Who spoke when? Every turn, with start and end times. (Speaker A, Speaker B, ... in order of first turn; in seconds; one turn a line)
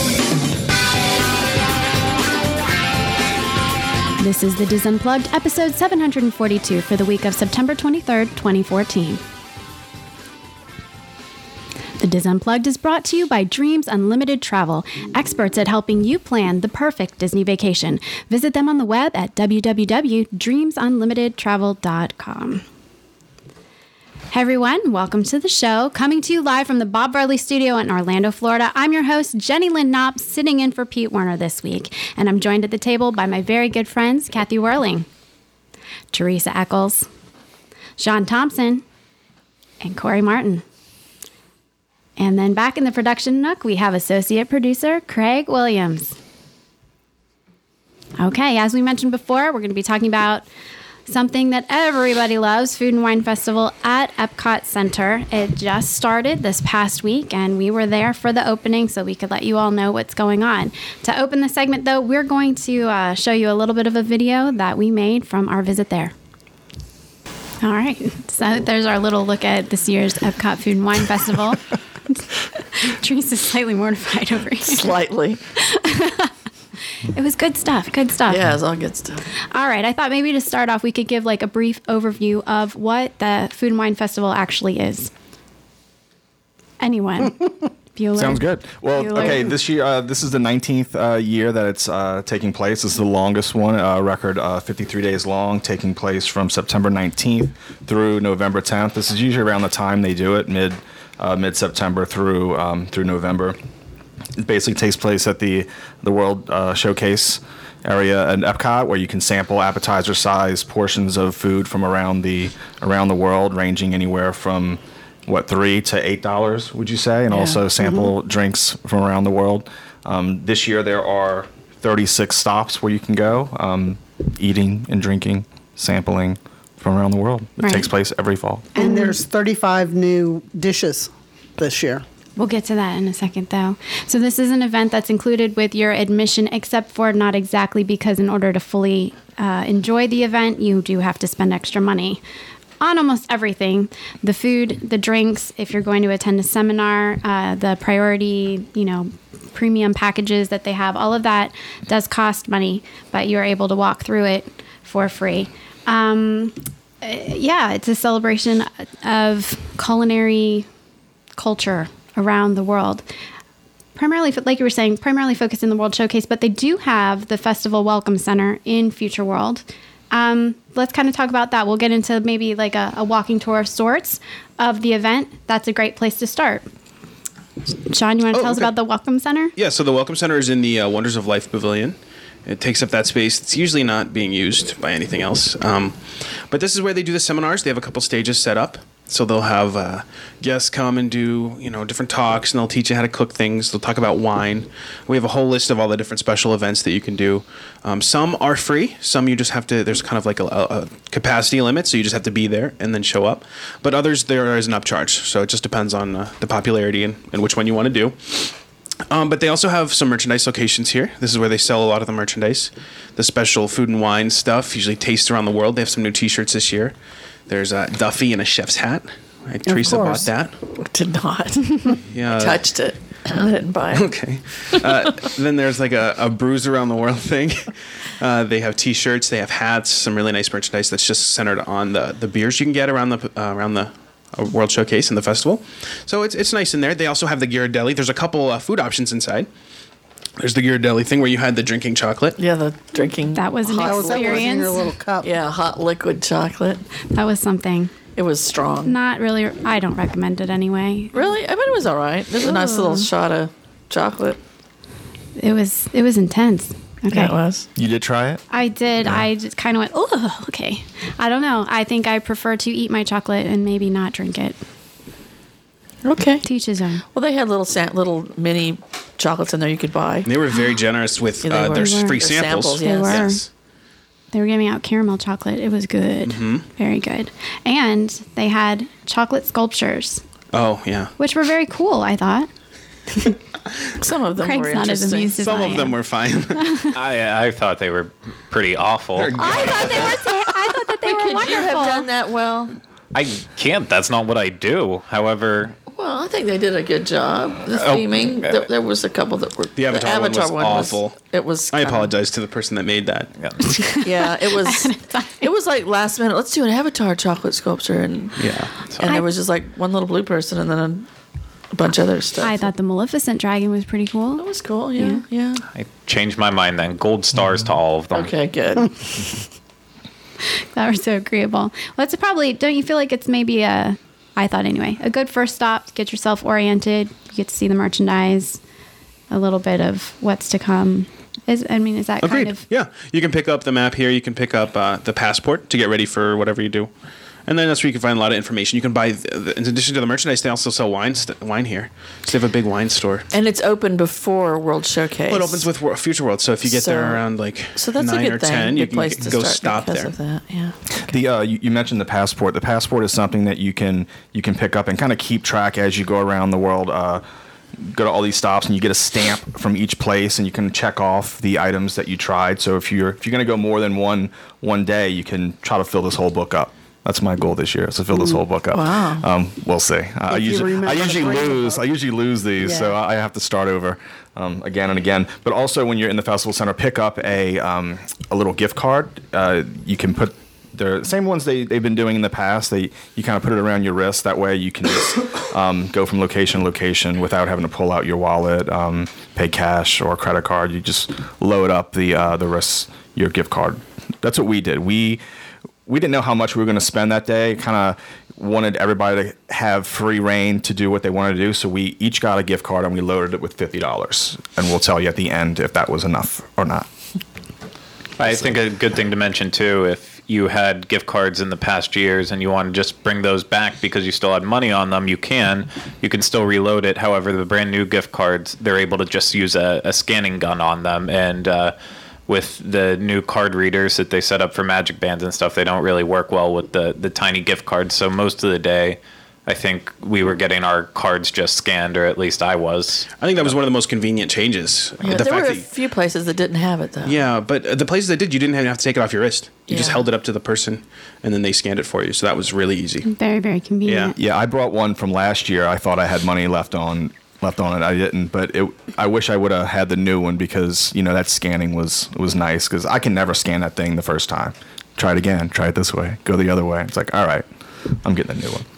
Speaker A: 4.2-9.2
Speaker A: 12.0-22.6
Speaker A: 24.3-35.1
Speaker A: 36.1-37.1
Speaker A: 38.0-38.8
Speaker A: 39.8-40.6
Speaker A: 42.2-46.2
Speaker A: 48.2-50.5
Speaker A: 51.1-66.1
Speaker A: 67.6-74.9
Speaker B: 74.7-75.4
Speaker A: 75.5-76.3
Speaker A: 77.0-78.5
Speaker B: 78.3-79.2
Speaker A: 79.5-85.1
Speaker A: 86.8-89.5
Speaker C: 88.2-103.6
Speaker C: 104.4-128.7
Speaker B: 117.3-117.6
Speaker A: 127.6-127.9
Speaker A: 128.8-129.2
Speaker D: 128.8-132.0
Speaker A: 132.4-142.2
Speaker A: 142.8-160.7
Speaker A: 161.4-163.1
Speaker A: 164.0-176.7
Speaker A: 177.9-179.5
Speaker E: 178.3-178.7
Speaker E: 179.6-208.6
Speaker E: 209.1-216.9
Speaker E: 217.5-220.6
Speaker D: 219.7-220.3
Speaker B: 220.8-224.1
Speaker E: 222.0-222.7
Speaker E: 223.9-239.5
Speaker B: 224.7-225.3
Speaker E: 240.4-242.4
Speaker B: 242.4-244.6
Speaker A: 243.3-244.8
Speaker D: 243.8-245.3
Speaker B: 245.2-246.8
Speaker A: 247.1-247.9
Speaker B: 248.2-249.0
Speaker A: 248.8-251.2
Speaker B: 251.1-254.4
Speaker A: 252.4-253.1
Speaker A: 255.4-257.4
Speaker B: 257.1-257.7
Speaker C: 257.8-258.4
Speaker A: 258.5-264.6
Speaker B: 266.0-266.5
Speaker A: 266.4-267.0
Speaker B: 267.1-270.3
Speaker E: 270.2-273.5
Speaker B: 271.4-273.3
Speaker A: 271.8-272.2
Speaker A: 272.8-273.4
Speaker A: 274.3-280.2
Speaker E: 276.2-276.6
Speaker E: 280.5-281.1
Speaker A: 281.2-282.5
Speaker B: 284.0-285.8
Speaker A: 284.4-286.0
Speaker E: 285.4-286.8
Speaker A: 286.6-286.9
Speaker F: 286.9-289.7
Speaker C: 289.1-290.2
Speaker A: 289.4-292.1
Speaker B: 289.8-292.8
Speaker F: 293.1-295.8
Speaker B: 295.9-302.1
Speaker F: 297.7-298.7
Speaker E: 299.8-303.3
Speaker A: 303.6-305.5
Speaker B: 304.0-311.1
Speaker E: 308.4-308.7
Speaker B: 311.7-312.7
Speaker A: 312.4-314.4
Speaker B: 314.4-315.6
Speaker A: 315.0-315.2
Speaker F: 315.7-318.3
Speaker B: 318.1-319.2
Speaker A: 320.7-328.6
Speaker A: 329.3-332.6
Speaker E: 332.2-336.9
Speaker E: 337.5-343.3
Speaker B: 343.3-345.6
Speaker E: 345.3-350.1
Speaker B: 346.6-347.2
Speaker B: 347.8-351.1
Speaker C: 351.1-357.2
Speaker C: 357.8-395.2
Speaker B: 368.7-369.3
Speaker D: 370.3-371.8
Speaker D: 372.6-372.9
Speaker C: 395.9-406.9
Speaker F: 408.2-421.8
Speaker F: 422.3-433.1
Speaker E: 433.2-435.7
Speaker B: 435.0-437.3
Speaker E: 437.1-443.1
Speaker B: 439.7-440.1
Speaker A: 443.1-444.1
Speaker E: 443.9-444.1
Speaker C: 444.2-458.7